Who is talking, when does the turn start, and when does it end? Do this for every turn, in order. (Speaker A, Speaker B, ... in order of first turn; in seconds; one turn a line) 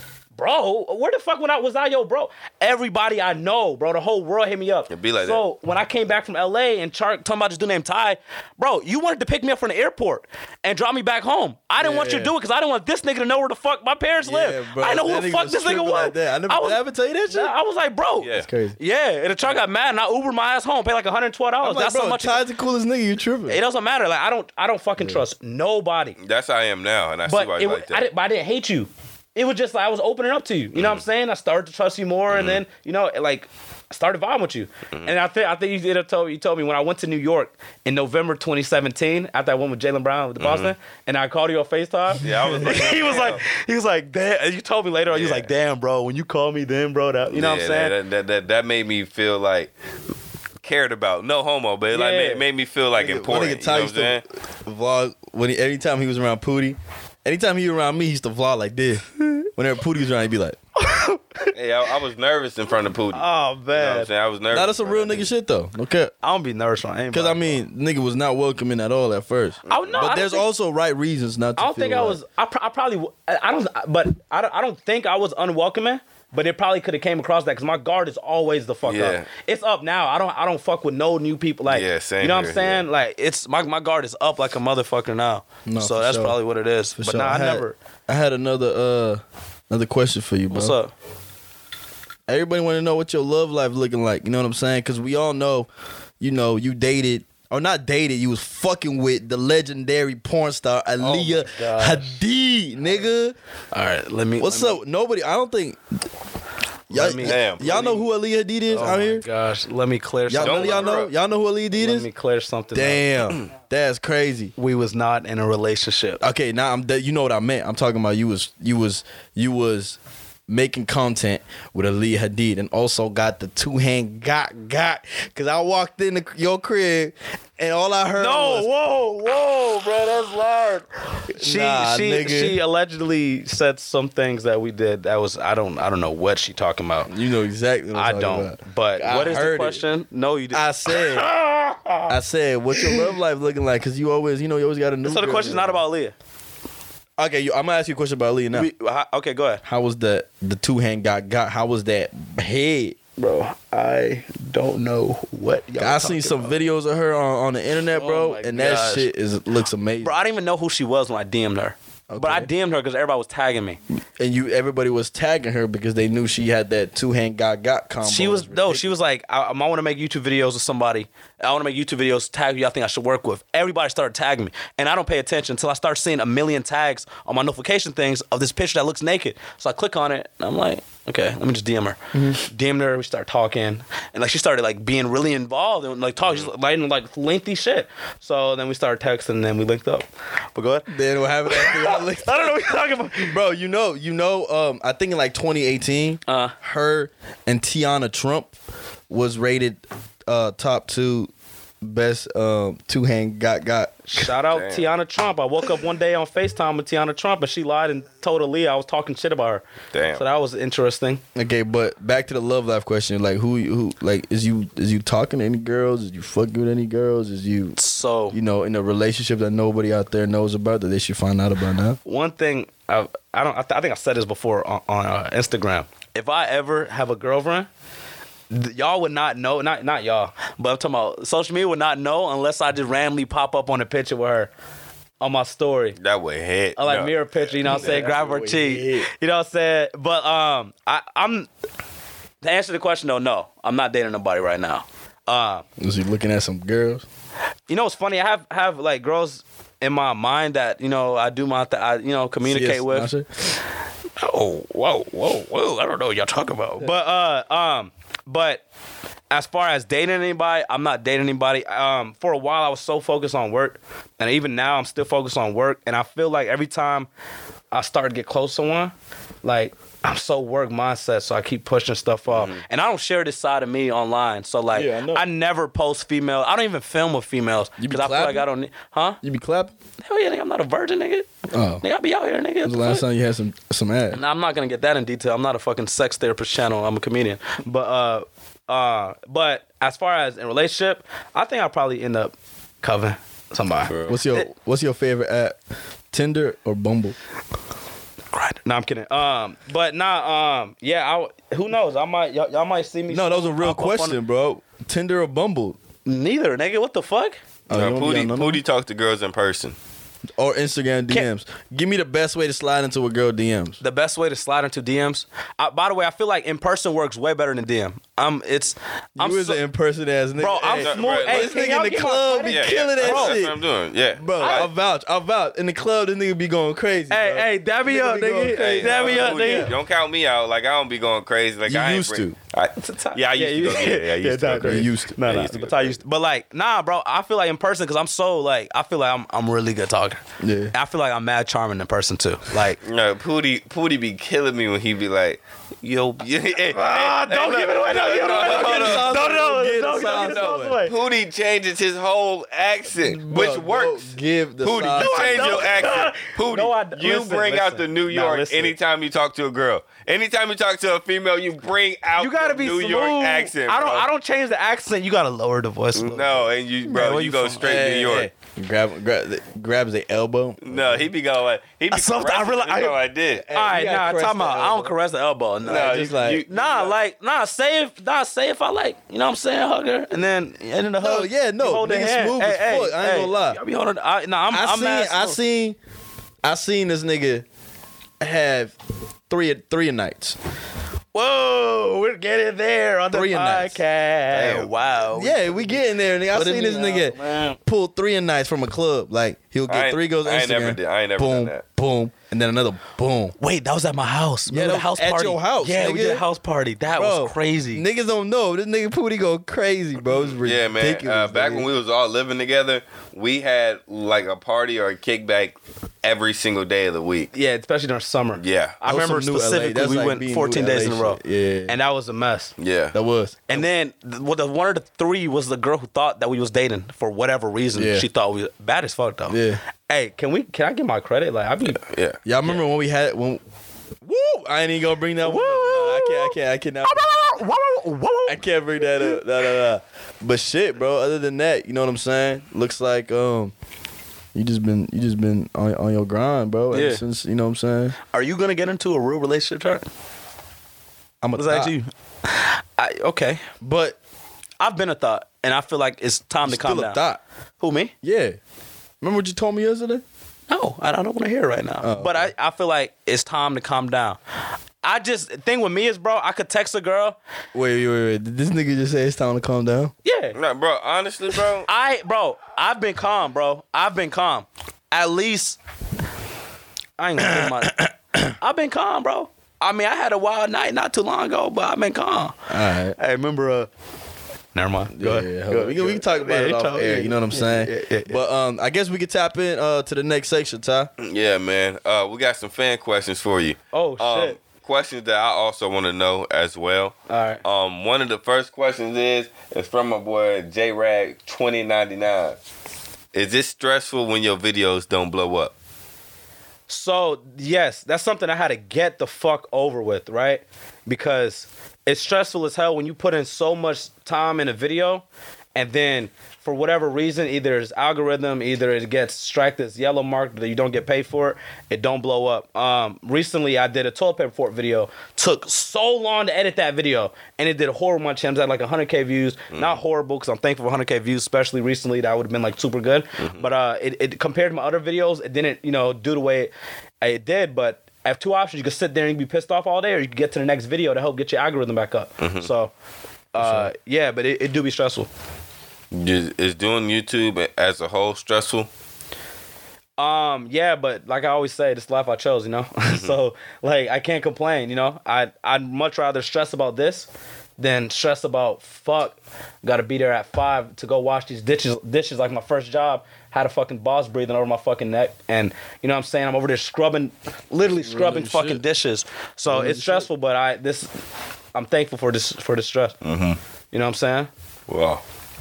Speaker A: 0.4-16.8
Speaker B: 4.9-5.4
Speaker C: 11.8-12.3
Speaker C: 14.2-17.5
Speaker A: 17.3-22.4
Speaker B: 18.2-18.5
Speaker C: 18.4-18.8
Speaker C: 21.6-23.6
Speaker A: 23.5-26.2
Speaker C: 25.0-25.2
Speaker B: 26.2-28.0
Speaker A: 27.3-48.0
Speaker B: 30.8-31.0
Speaker B: 32.3-32.6
Speaker B: 40.4-40.7
Speaker B: 42.2-43.4
Speaker B: 45.1-45.5
Speaker B: 47.3-49.7
Speaker B: 50.6-54.2
Speaker A: 51.9-52.5
Speaker C: 53.0-60.6
Speaker A: 60.8-61.5
Speaker B: 61.5-65.3
Speaker A: 63.1-64.1
Speaker C: 64.5-66.1
Speaker A: 66.2-67.5
Speaker C: 67.1-72.2
Speaker B: 69.7-70.0
Speaker A: 69.7-70.5
Speaker A: 71.6-87.8
Speaker B: 78.8-79.3
Speaker B: 81.7-82.8
Speaker C: 85.7-86.4
Speaker C: 87.0-90.8
Speaker A: 90.5-90.9
Speaker C: 92.3-95.7
Speaker C: 96.2-103.4
Speaker A: 101.0-102.2
Speaker A: 103.7-104.8
Speaker C: 104.4-105.8
Speaker C: 106.9-109.2
Speaker A: 106.9-108.0
Speaker B: 107.2-107.9
Speaker A: 108.7-111.0
Speaker C: 110.3-112.1
Speaker B: 110.4-111.1
Speaker A: 111.8-113.0
Speaker C: 112.7-114.5
Speaker A: 114.6-116.2
Speaker C: 116.2-128.7
Speaker A: 128.2-137.1
Speaker C: 131.3-132.6
Speaker C: 137.1-139.8
Speaker A: 137.9-142.1
Speaker C: 140.5-141.3
Speaker C: 142.1-145.8
Speaker A: 142.8-143.1
Speaker A: 145.0-146.1
Speaker C: 147.2-148.7
Speaker A: 148.5-149.6
Speaker C: 149.6-153.0
Speaker A: 153.2-156.6
Speaker C: 155.8-160.1
Speaker A: 157.9-159.1
Speaker A: 160.0-163.8
Speaker C: 162.1-162.5
Speaker C: 164.2-168.9
Speaker A: 168.0-190.9
Speaker C: 182.1-182.4
Speaker C: 190.9-192.6
Speaker A: 191.5-193.4
Speaker C: 193.2-198.5
Speaker A: 196.3-196.5
Speaker C: 199.1-201.3
Speaker C: 201.8-204.0
Speaker A: 204.1-211.2
Speaker B: 204.5-204.9
Speaker B: 209.9-210.2
Speaker C: 211.3-217.8
Speaker A: 217.8-218.4
Speaker C: 218.3-222.0
Speaker A: 222.1-227.7
Speaker A: 228.5-234.5
Speaker A: 235.2-236.0
Speaker B: 236.0-237.1
Speaker A: 236.8-241.5
Speaker C: 237.6-239.1
Speaker B: 237.7-238.0
Speaker A: 242.4-245.6
Speaker C: 245.8-247.1
Speaker A: 247.7-253.1
Speaker C: 252.4-253.5
Speaker A: 254.2-258.6
Speaker A: 259.3-267.1
Speaker A: 267.7-279.2
Speaker B: 272.3-272.6
Speaker C: 274.7-275.2
Speaker C: 277.8-278.5
Speaker C: 279.2-279.7
Speaker A: 280.0-281.3
Speaker C: 281.5-281.8
Speaker A: 281.8-283.0
Speaker C: 282.6-284.2
Speaker A: 284.1-294.5
Speaker B: 293.9-294.2
Speaker C: 294.1-295.6
Speaker C: 296.1-297.2
Speaker A: 298.3-304.2
Speaker C: 303.1-305.8
Speaker A: 306.1-307.4
Speaker C: 307.7-308.6
Speaker B: 307.7-309.8
Speaker C: 310.4-313.8
Speaker A: 313.8-319.6
Speaker C: 319.2-323.6
Speaker A: 320.4-323.4
Speaker B: 320.8-321.7
Speaker B: 322.5-324.7
Speaker C: 324.2-329.7
Speaker A: 324.4-324.7
Speaker A: 327.1-329.7
Speaker B: 328.6-336.0
Speaker C: 331.7-332.4
Speaker A: 332.8-340.2
Speaker C: 334.6-335.3
Speaker C: 340.4-340.7
Speaker A: 340.7-342.8
Speaker B: 342.8-349.3
Speaker A: 346.7-350.9
Speaker C: 348.4-350.8
Speaker B: 350.1-364.1
Speaker C: 353.0-355.9
Speaker A: 355.0-358.8
Speaker A: 362.2-367.7
Speaker B: 365.9-368.3
Speaker C: 367.6-371.1
Speaker B: 370.6-373.5
Speaker A: 371.9-373.0
Speaker C: 373.4-374.9
Speaker A: 373.5-385.4
Speaker B: 375.6-376.9
Speaker C: 375.7-376.4
Speaker C: 381.0-383.6
Speaker C: 384.5-385.8
Speaker C: 386.4-387.4
Speaker C: 388.2-388.7
Speaker C: 389.3-390.4
Speaker A: 391.1-395.8
Speaker C: 393.1-393.8
Speaker B: 394.3-394.7
Speaker C: 395.1-403.3
Speaker A: 396.3-397.6
Speaker B: 399.7-401.6
Speaker A: 403.4-407.9
Speaker C: 404.5-406.2
Speaker C: 406.9-411.7
Speaker B: 410.4-417.3
Speaker A: 417.3-422.5
Speaker B: 418.4-418.8
Speaker C: 418.8-421.8
Speaker B: 422.6-422.9
Speaker C: 422.9-423.6
Speaker A: 423.5-431.8
Speaker C: 427.8-428.1
Speaker C: 429.3-429.6
Speaker B: 431.8-432.2
Speaker C: 432.2-433.4
Speaker C: 434.0-437.4
Speaker A: 435.2-439.2
Speaker C: 438.3-443.5
Speaker C: 444.3-448.0
Speaker A: 446.7-447.0
Speaker A: 448.1-449.9
Speaker C: 451.2-451.7
Speaker A: 451.4-453.4
Speaker C: 453.6-454.0
Speaker A: 454.6-457.0
Speaker C: 456.4-457.2
Speaker A: 457.6-457.9
Speaker C: 458.0-458.4
Speaker C: 459.0-460.0
Speaker A: 460.5-464.2
Speaker C: 461.8-462.3
Speaker A: 464.8-467.2
Speaker C: 467.5-469.9
Speaker A: 470.1-470.4
Speaker B: 470.4-471.7
Speaker A: 471.7-475.6
Speaker A: 477.0-477.8
Speaker C: 477.2-478.3
Speaker A: 478.4-482.4
Speaker C: 482.5-483.0
Speaker A: 483.0-483.7
Speaker A: 484.6-488.2
Speaker C: 484.9-490.9
Speaker B: 491.0-502.4
Speaker A: 493.7-494.4
Speaker A: 497.1-497.4
Speaker B: 503.1-505.5
Speaker A: 506.7-542.7
Speaker B: 529.5-529.8
Speaker B: 533.2-533.5
Speaker B: 542.2-542.5
Speaker A: 543.3-545.1
Speaker C: 543.4-543.7
Speaker B: 545.9-548.7
Speaker A: 550.0-571.0
Speaker B: 552.9-553.1
Speaker C: 567.7-568.6
Speaker C: 569.5-570.1
Speaker A: 571.5-573.0
Speaker B: 573.0-573.4
Speaker A: 573.7-574.3
Speaker B: 574.7-575.0